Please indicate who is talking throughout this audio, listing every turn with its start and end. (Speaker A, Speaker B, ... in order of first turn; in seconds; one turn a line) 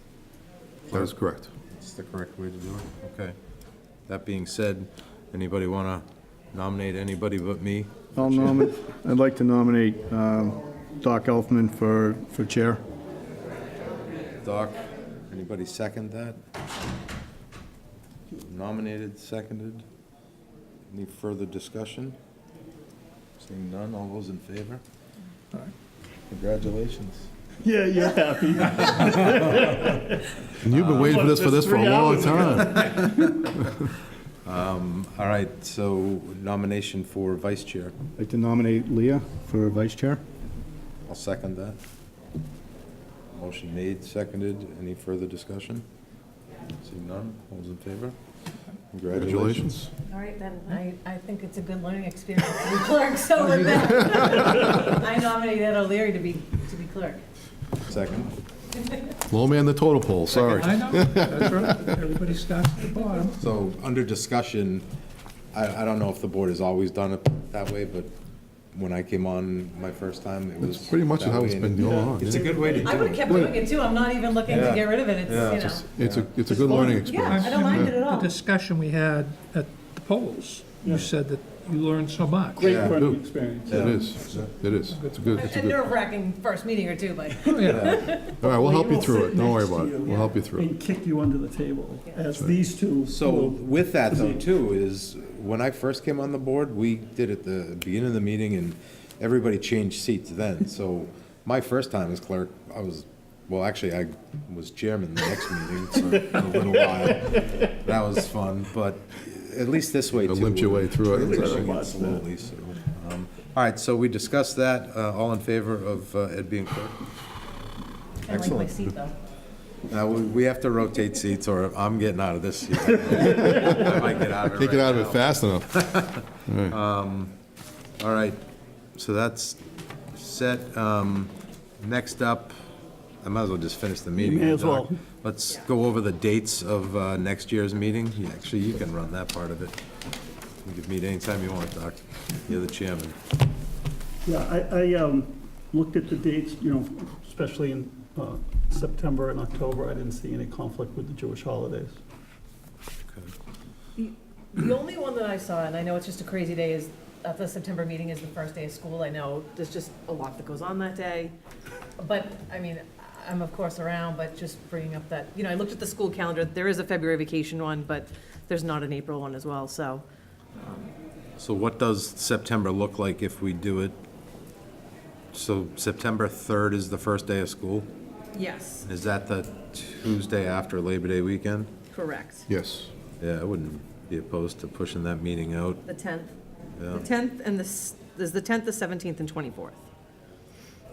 Speaker A: 0.9-1.5
Speaker B: 1.7-3.4
Speaker B: 4.1-8.7
Speaker C: 8.2-12.8
Speaker B: 14.4-16.4
Speaker B: 18.3-19.9
Speaker B: 20.9-22.2
Speaker B: 23.4-24.8
Speaker B: 26.3-27.3
Speaker D: 27.6-30.5
Speaker A: 30.6-32.8
Speaker B: 30.6-31.4
Speaker D: 31.0-33.3
Speaker B: 32.4-33.9
Speaker B: 34.4-37.9
Speaker C: 38.2-40.2
Speaker B: 41.1-41.8
Speaker B: 43.4-45.9
Speaker B: 46.8-48.2
Speaker B: 48.9-49.8
Speaker A: 49.1-49.9
Speaker E: 50.1-57.2
Speaker B: 57.9-58.3
Speaker E: 58.8-59.1
Speaker A: 59.3-61.9
Speaker F: 60.3-63.4
Speaker B: 63.4-64.9
Speaker B: 65.5-68.1
Speaker B: 68.7-73.3
Speaker A: 70.6-72.6
Speaker D: 72.3-72.8
Speaker E: 72.7-75.8
Speaker A: 73.2-73.6
Speaker B: 74.5-77.0
Speaker A: 75.9-78.0
Speaker E: 76.6-78.3
Speaker F: 77.2-83.0
Speaker D: 82.6-83.9
Speaker B: 82.6-83.0
Speaker A: 82.8-85.9
Speaker B: 83.6-84.5
Speaker F: 84.1-85.5
Speaker E: 85.4-88.3
Speaker F: 87.4-88.0
Speaker B: 87.7-88.0
Speaker A: 88.4-90.7
Speaker D: 88.4-93.6
Speaker E: 90.1-90.3
Speaker B: 93.0-117.0
Speaker A: 110.2-111.7
Speaker D: 111.1-112.2
Speaker E: 118.3-119.2
Speaker B: 118.3-118.7
Speaker B: 119.9-127.3
Speaker A: 123.5-123.9
Speaker A: 124.5-125.8
Speaker A: 126.5-126.8
Speaker B: 128.0-128.4
Speaker B: 128.9-129.6
Speaker B: 130.1-132.5
Speaker B: 133.2-139.8
Speaker D: 134.2-135.0
Speaker B: 140.6-143.2
Speaker D: 144.2-152.0
Speaker B: 153.1-153.3
Speaker E: 154.0-161.3
Speaker E: 162.0-170.0
Speaker E: 170.6-170.9
Speaker B: 171.4-174.0
Speaker B: 175.3-177.9
Speaker E: 178.3-178.8
Speaker B: 178.8-181.7
Speaker E: 181.9-182.5
Speaker A: 182.5-182.9
Speaker B: 183.2-185.8
Speaker E: 185.9-186.3
Speaker B: 186.8-187.1
Speaker E: 186.9-189.8